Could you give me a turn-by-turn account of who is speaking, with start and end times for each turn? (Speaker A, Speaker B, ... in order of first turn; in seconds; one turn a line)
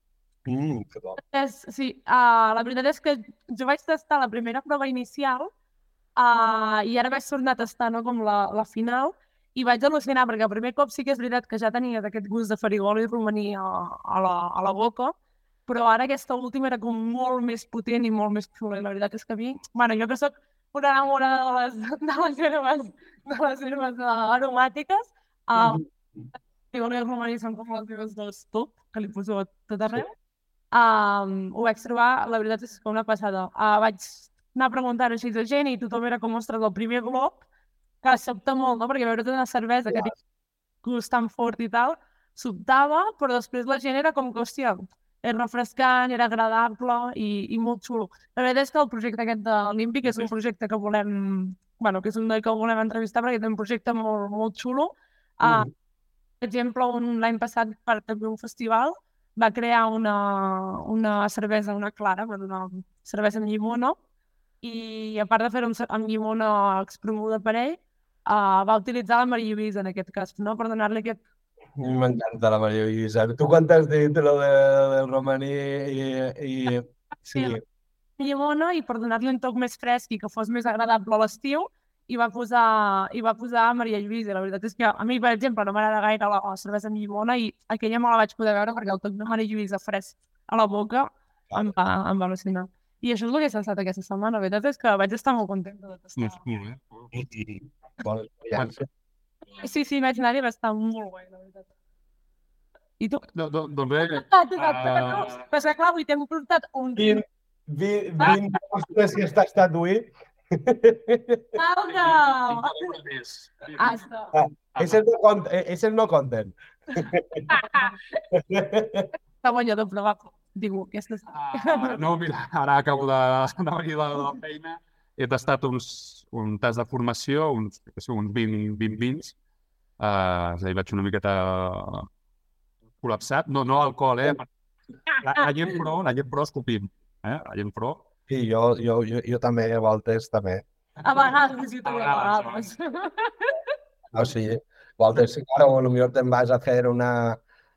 Speaker A: 0.5-1.2
Speaker B: 1.2-5.5
Speaker B: 6.2-15.1
Speaker B: 15.7-25.8
Speaker A: 25.6-25.8
Speaker B: 26.7-30.1
Speaker B: 30.7-37.4
Speaker B: 38.0-40.1
Speaker B: 40.8-55.7
Speaker A: 55.4-55.7
Speaker B: 56.4-64.0
Speaker B: 64.6-71.2
Speaker A: 71.8-77.6
Speaker B: 78.2-96.4
Speaker C: 96.2-97.1
Speaker A: 97.1-98.9
Speaker B: 99.6-101.7
Speaker C: 103.3-105.4
Speaker B: 104.1-107.2
Speaker A: 107.0-111.6
Speaker B: 111.5-112.9
Speaker C: 111.9-113.8
Speaker B: 113.8-114.3
Speaker A: 114.3-117.5
Speaker B: 117.5-117.9
Speaker A: 118.3-119.1
Speaker B: 119.4-122.0
Speaker C: 121.3-129.3
Speaker C: 130.0-132.1
Speaker C: 133.0-134.5
Speaker C: 135.2-138.0
Speaker A: 138.3-140.6
Speaker B: 141.0-143.6
Speaker C: 141.8-142.7
Speaker A: 144.1-147.4